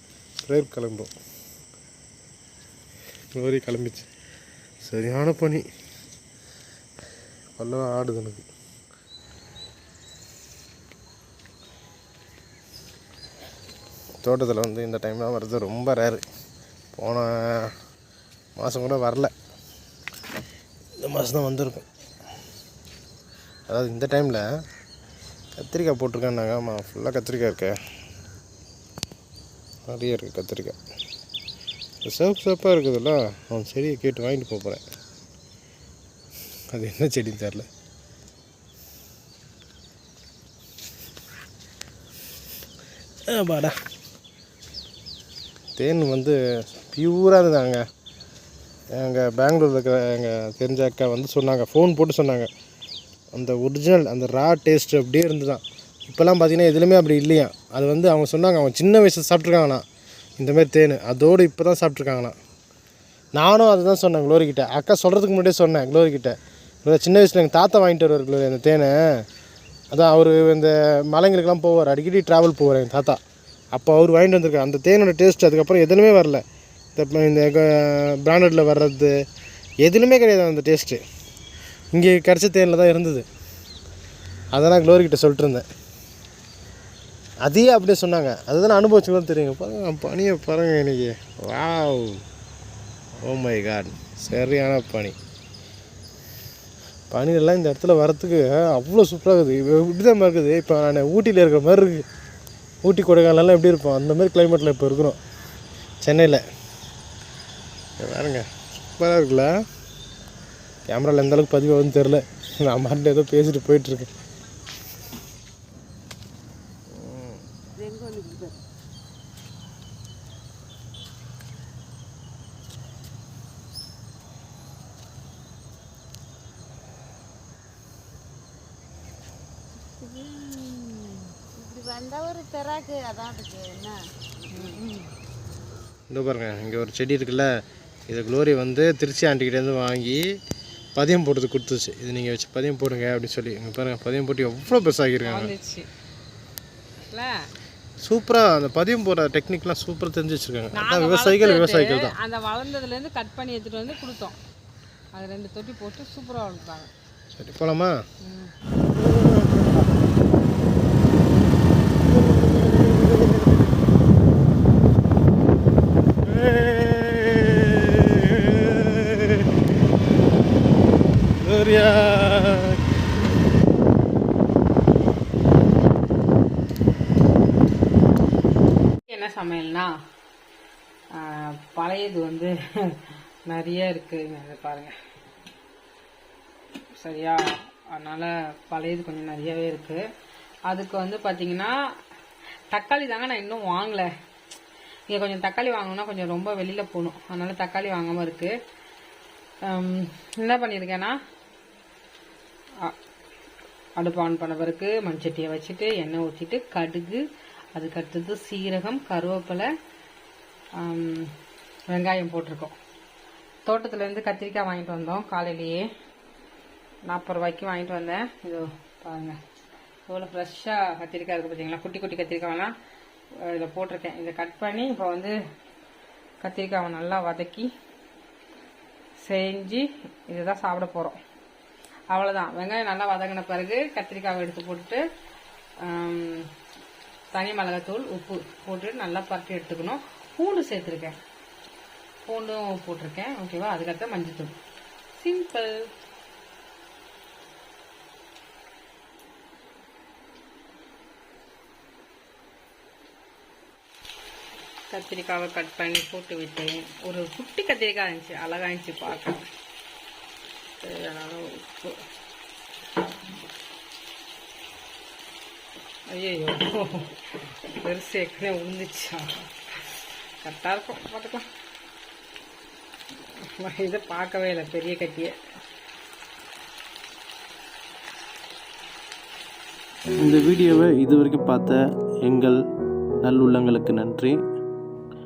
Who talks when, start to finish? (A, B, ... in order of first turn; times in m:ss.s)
0:00.4-0:01.1 A
0:03.3-0:04.1 A
0:04.8-0:05.6 A
0:07.6-0:08.4 A
0:14.2-0:16.2 A
0:16.9-0:17.7 A
0:18.6-0:19.3 A
0:21.0-0:21.8 A
0:23.7-0:24.4 A
0:25.6-0:27.8 A
0:29.9-0:30.8 A
0:32.0-0:34.8 A
0:36.7-0:37.7 A
0:43.3-0:43.8 A
0:45.8-0:47.8 A
0:49.0-0:52.5 A
0:53.3-0:59.8 A
1:00.4-1:02.3 A
1:03.4-1:09.2 A
1:09.9-1:13.2 A
1:13.7-1:16.4 A
1:16.9-1:19.1 A
1:19.8-1:21.0 A
1:21.9-1:23.2 A
1:24.5-1:25.7 A
1:27.4-1:32.2 A
1:33.2-1:35.1 A
1:37.1-1:42.0 A
1:42.8-1:45.2 A
1:46.0-1:46.4 A
1:48.0-1:49.5 A
1:50.9-1:54.1 A
1:56.9-1:57.4 A
1:57.8-1:58.6 B
2:09.9-2:15.1 B
2:16.1-2:17.5 A
2:18.1-2:20.2 A
2:21.0-2:25.5 A
2:25.2-2:25.9 C
2:27.0-2:27.5 C
2:28.0-2:32.2 A
2:30.7-2:34.4 C
2:35.1-2:36.9 C
2:37.3-2:38.0 A
2:38.2-2:38.5 C
2:38.8-2:39.9 A
2:42.1-2:43.6 A
2:46.2-2:49.5 A
2:51.3-2:52.8 A
2:59.1-2:59.9 C
3:01.1-3:04.9 C
3:07.0-3:07.4 C
3:07.9-3:10.0 C
3:10.7-3:11.7 C
3:12.7-3:14.1 C
3:15.1-3:18.5 C
3:19.7-3:21.2 C
3:24.0-3:27.2 C
3:27.7-3:29.7 C
3:30.8-3:31.3 C
3:31.9-3:32.7 C
3:33.6-3:35.8 C
3:37.1-3:39.4 C
3:40.1-3:42.7 C
3:43.4-3:45.3 C
3:46.4-3:47.7 C
3:49.2-3:51.2 C
3:52.1-3:55.0 C
3:55.8-3:56.5 C
3:57.3-4:01.2 C
4:02.2-4:04.5 C
4:05.2-4:05.8 C
4:14.9-4:19.4 C
4:20.8-4:22.0 C
4:26.1-4:27.1 C
4:27.7-4:29.3 C
4:30.4-4:31.4 C
4:33.5-4:35.3 C
4:40.2-4:42.6 A
4:43.2-4:44.4 A